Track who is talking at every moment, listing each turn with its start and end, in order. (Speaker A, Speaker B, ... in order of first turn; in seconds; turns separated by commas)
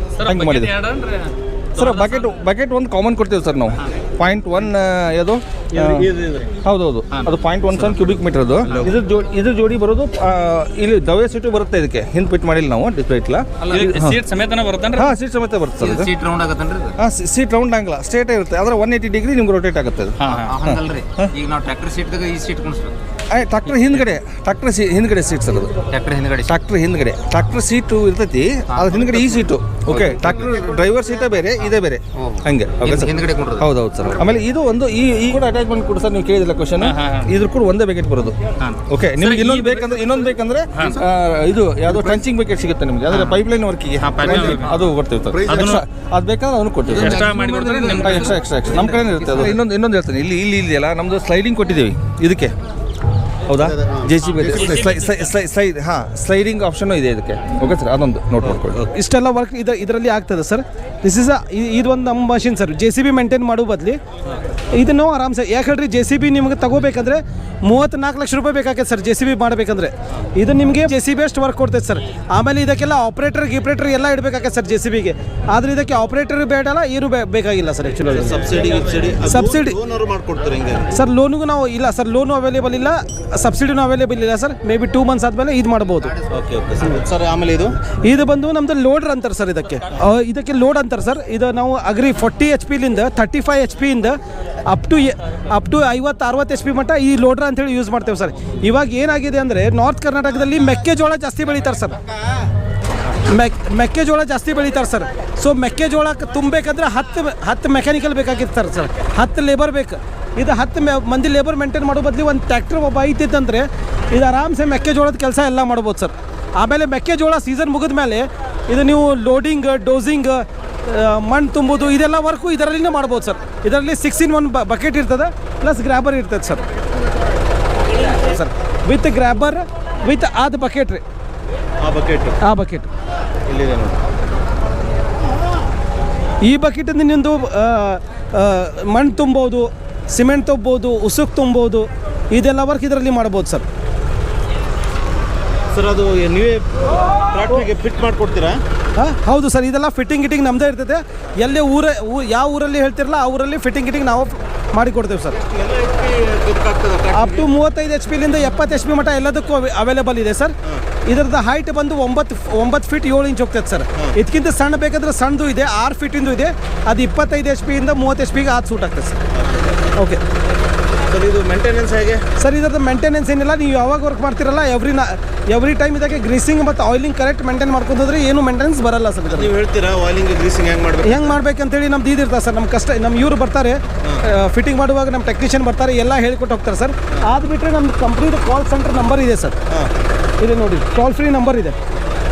Speaker A: 0.2-2.3, Speaker B: 0.2-0.7, Speaker B: 1.7-6.1, Speaker C: 5.8-6.5, Speaker B: 6.6-14.2, Speaker D: 7.1-8.0, Speaker D: 8.6-8.9, Speaker D: 13.6-13.9, Speaker A: 13.7-15.1, Speaker B: 14.9-16.1, Speaker D: 15.8-16.9, Speaker B: 17.0-21.3, Speaker A: 20.2-20.5, Speaker D: 20.2-22.9, Speaker B: 23.3-25.8, Speaker D: 25.9-26.5, Speaker B: 26.4-38.4, Speaker D: 28.7-29.4, Speaker D: 32.2-33.7, Speaker A: 36.8-37.3, Speaker B: 38.9-52.5, Speaker A: 39.2-39.9, Speaker A: 40.8-41.0, Speaker D: 43.1-43.4, Speaker A: 44.0-44.8, Speaker C: 45.3-45.7, Speaker A: 45.4-45.8, Speaker D: 46.9-49.5, Speaker A: 47.0-48.4, Speaker B: 53.5-58.8, Speaker C: 53.5-54.9, Speaker A: 54.3-55.3, Speaker C: 58.4-58.9, Speaker E: 58.9-64.0, Speaker E: 64.7-78.7, Speaker C: 78.1-81.0, Speaker E: 79.2-79.8, Speaker E: 80.9-86.2, Speaker C: 86.3-87.8, Speaker E: 88.0-102.0, Speaker E: 103.2-126.6, Speaker E: 128.1-131.0, Speaker C: 131.8-132.4, Speaker E: 132.4-132.9, Speaker C: 133.5-134.0, Speaker E: 136.4-143.7, Speaker C: 145.7-148.6, Speaker E: 148.9-155.4, Speaker C: 155.4-157.5, Speaker E: 157.1-160.5, Speaker E: 161.1-169.2, Speaker E: 169.9-170.2, Speaker C: 171.0-172.2, Speaker E: 172.4-179.5, Speaker C: 179.3-181.3, Speaker E: 181.0-189.6, Speaker E: 190.4-191.8